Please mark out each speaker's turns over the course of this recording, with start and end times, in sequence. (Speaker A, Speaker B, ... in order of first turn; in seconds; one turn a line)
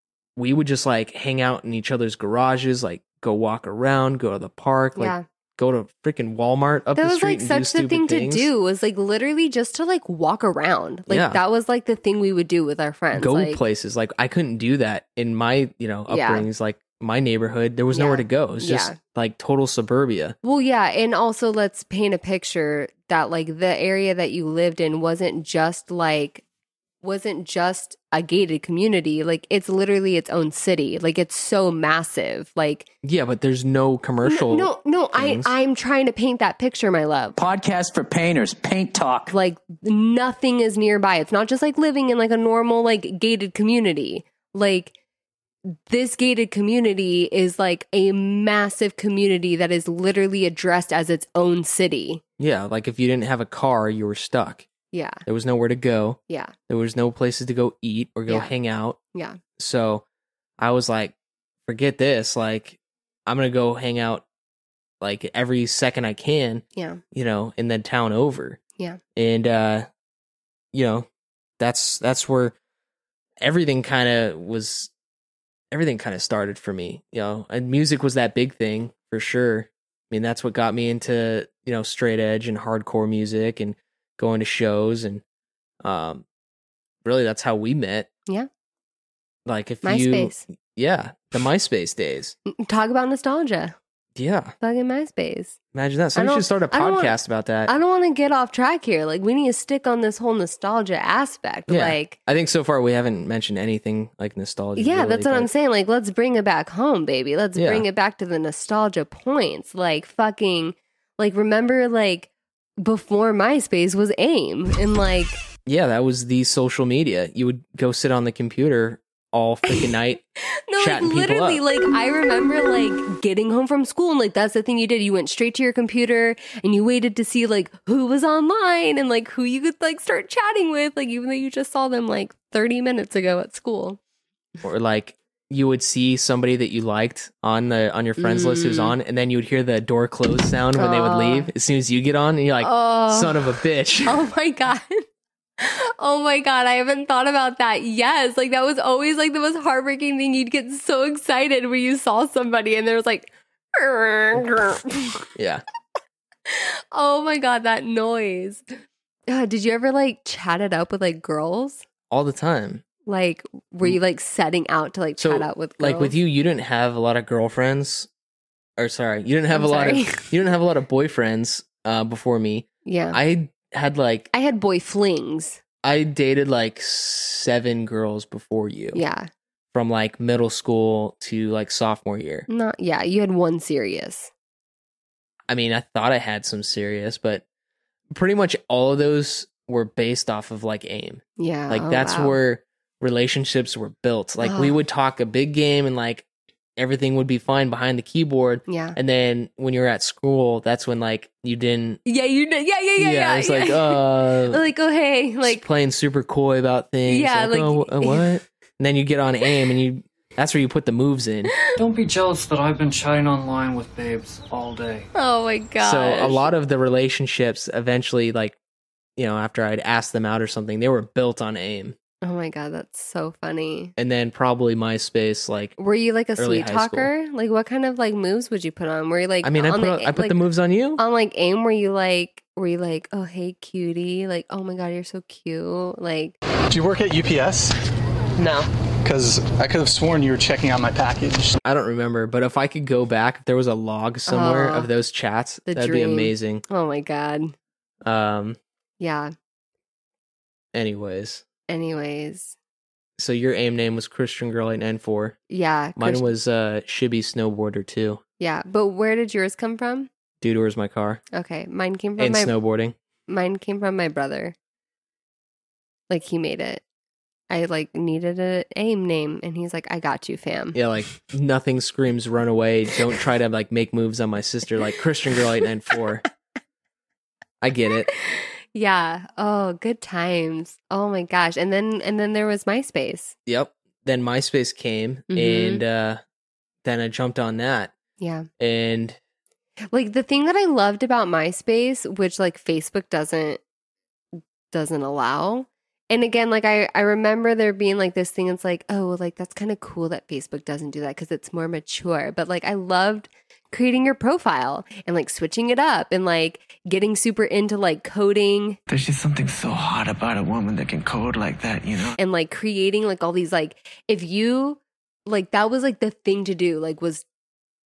Speaker A: 0.4-8.5
Speaker B: 5.0-5.2
Speaker B: 7.0-13.6
Speaker A: 11.1-11.4
Speaker A: 13.1-20.4
Speaker B: 16.1-16.5
Speaker B: 17.9-19.0
Speaker B: 20.4-26.4
Speaker B: 27.0-32.9
Speaker A: 33.0-35.5
Speaker B: 34.2-37.4
Speaker C: 37.4-39.3
Speaker B: 39.3-44.9
Speaker B: 45.9-52.2
Speaker A: 52.4-54.7
Speaker B: 54.9-55.2
Speaker A: 55.3-59.0
Speaker B: 56.3-56.5
Speaker B: 59.1-59.4
Speaker A: 59.6-60.0
Speaker A: 60.6-61.1
Speaker A: 61.6-64.2
Speaker A: 65.0-68.6
Speaker B: 66.8-67.0
Speaker A: 69.2-69.9
Speaker A: 70.7-71.1
Speaker A: 71.6-72.5
Speaker A: 73.4-74.9
Speaker A: 75.7-85.2
Speaker A: 85.8-86.2
Speaker A: 87.0-88.1
Speaker A: 89.5-92.3
Speaker B: 89.8-90.4
Speaker B: 92.5-93.8
Speaker A: 94.2-94.5
Speaker B: 94.6-95.6
Speaker A: 95.7-97.7
Speaker B: 96.2-102.2
Speaker A: 101.7-105.5
Speaker B: 104.8-115.4
Speaker A: 107.6-107.9
Speaker A: 115.7-120.2
Speaker B: 120.7-134.0
Speaker A: 120.8-121.6
Speaker A: 134.6-144.2
Speaker B: 138.2-139.0
Speaker B: 140.8-141.5
Speaker B: 142.6-145.1
Speaker B: 145.6-155.2
Speaker A: 155.3-155.6
Speaker B: 156.5-158.6
Speaker B: 159.3-161.8
Speaker A: 162.1-162.8
Speaker B: 163.1-166.1
Speaker A: 165.2-168.1
Speaker A: 168.8-174.3
Speaker B: 169.5-170.3
Speaker B: 172.8-173.2
Speaker B: 174.3-175.6
Speaker A: 175.8-179.0
Speaker B: 178.9-179.3
Speaker A: 179.7-182.5
Speaker B: 182.5-184.3
Speaker A: 185.5-187.4
Speaker A: 188.1-196.2
Speaker B: 191.4-192.4
Speaker B: 194.4-194.8
Speaker A: 196.8-202.0
Speaker B: 198.7-199.0
Speaker B: 202.1-205.6
Speaker A: 203.0-204.6
Speaker A: 205.4-211.5
Speaker B: 207.1-208.3
Speaker D: 211.8-215.1
Speaker B: 215.1-216.5
Speaker A: 215.8-218.6
Speaker A: 219.2-222.0
Speaker B: 222.2-223.9
Speaker A: 224.0-225.8
Speaker B: 225.8-230.4
Speaker A: 226.4-227.1
Speaker A: 229.4-231.0
Speaker B: 231.0-236.4
Speaker E: 236.7-237.7
Speaker B: 238.4-238.7
Speaker E: 239.0-241.5
Speaker A: 241.6-246.6
Speaker B: 244.3-244.9
Speaker B: 245.7-247.5
Speaker A: 248.0-248.6
Speaker B: 249.0-249.3
Speaker A: 250.7-251.4
Speaker B: 251.7-252.6
Speaker A: 253.2-255.4
Speaker B: 255.5-256.3
Speaker A: 256.0-258.2
Speaker B: 258.4-260.1
Speaker A: 260.4-261.2
Speaker B: 261.3-262.5
Speaker A: 262.2-262.9
Speaker B: 263.3-264.6
Speaker B: 266.1-266.8
Speaker B: 267.5-270.8
Speaker A: 270.7-276.2
Speaker A: 277.6-278.1
Speaker B: 278.2-283.3
Speaker A: 283.5-286.2
Speaker B: 285.3-285.8
Speaker A: 286.8-287.9
Speaker B: 288.2-288.5
Speaker A: 288.6-289.2
Speaker B: 289.9-293.6
Speaker B: 294.7-308.8
Speaker F: 308.9-312.2
Speaker B: 312.2-317.2